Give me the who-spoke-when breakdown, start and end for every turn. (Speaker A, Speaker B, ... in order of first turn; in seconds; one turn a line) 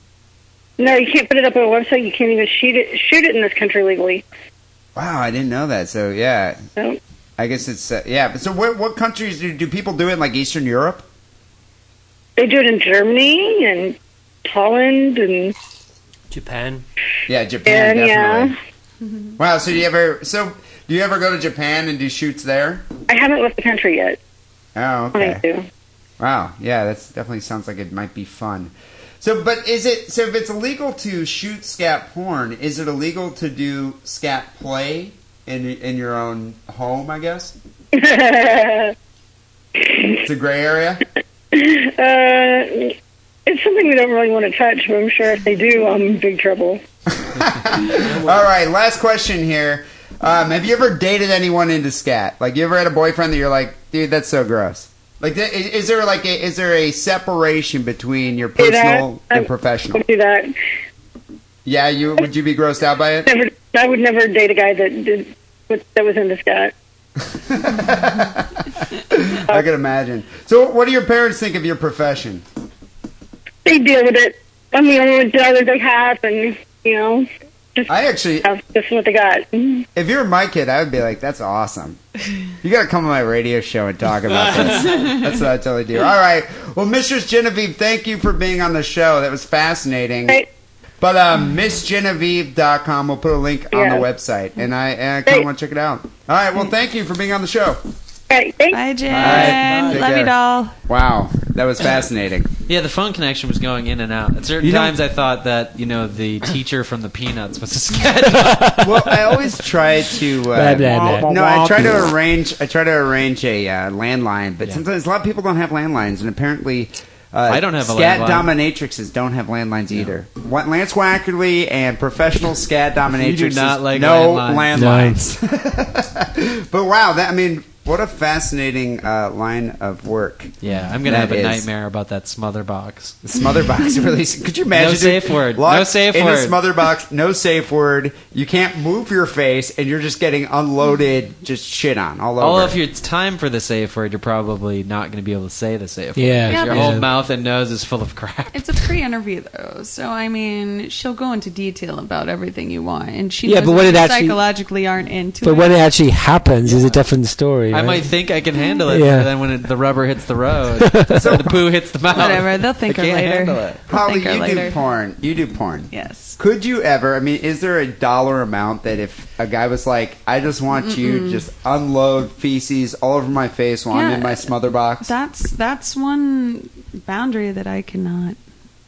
Speaker A: 0.8-4.2
Speaker B: 4.9-6.6
Speaker B: 7.4-11.0
Speaker A: 12.4-15.5
Speaker C: 16.3-16.8
Speaker B: 17.3-18.5
Speaker A: 17.7-18.6
Speaker B: 19.4-22.9
Speaker A: 23.1-24.2
Speaker B: 24.7-25.4
Speaker A: 25.1-25.6
Speaker B: 26.2-37.5
Speaker A: 37.9-38.9
Speaker B: 40.2-41.0
Speaker A: 41.5-42.9
Speaker A: 43.5-46.8
Speaker B: 47.1-60.0
Speaker A: 58.6-60.5
Speaker B: 61.6-63.3
Speaker A: 63.2-66.7
Speaker B: 67.3-72.4
Speaker A: 73.6-79.8
Speaker B: 77.9-78.5
Speaker B: 79.9-82.0
Speaker B: 82.6-90.4
Speaker B: 91.0-97.8
Speaker A: 93.7-94.0
Speaker A: 98.3-98.8
Speaker D: 98.7-100.7
Speaker B: 99.1-100.3
Speaker E: 99.1-99.9
Speaker B: 100.9-102.5
Speaker E: 102.7-108.9
Speaker B: 104.6-105.0
Speaker C: 108.5-108.8
Speaker B: 108.8-131.7
Speaker C: 110.5-112.0
Speaker E: 117.5-118.5
Speaker E: 123.1-124.9
Speaker C: 124.7-125.2
Speaker E: 130.6-133.2
Speaker B: 133.2-142.8
Speaker E: 134.7-136.6
Speaker E: 142.4-148.9
Speaker C: 146.2-147.1
Speaker D: 146.5-147.0
Speaker D: 148.5-155.8
Speaker C: 153.4-154.4
Speaker C: 155.4-158.1
Speaker E: 156.7-157.0
Speaker E: 157.7-163.8
Speaker C: 158.9-159.3
Speaker C: 160.8-161.2
Speaker B: 161.1-161.6
Speaker D: 162.1-164.8
Speaker B: 163.9-175.1
Speaker D: 165.9-166.4
Speaker D: 170.8-171.4
Speaker D: 173.9-178.4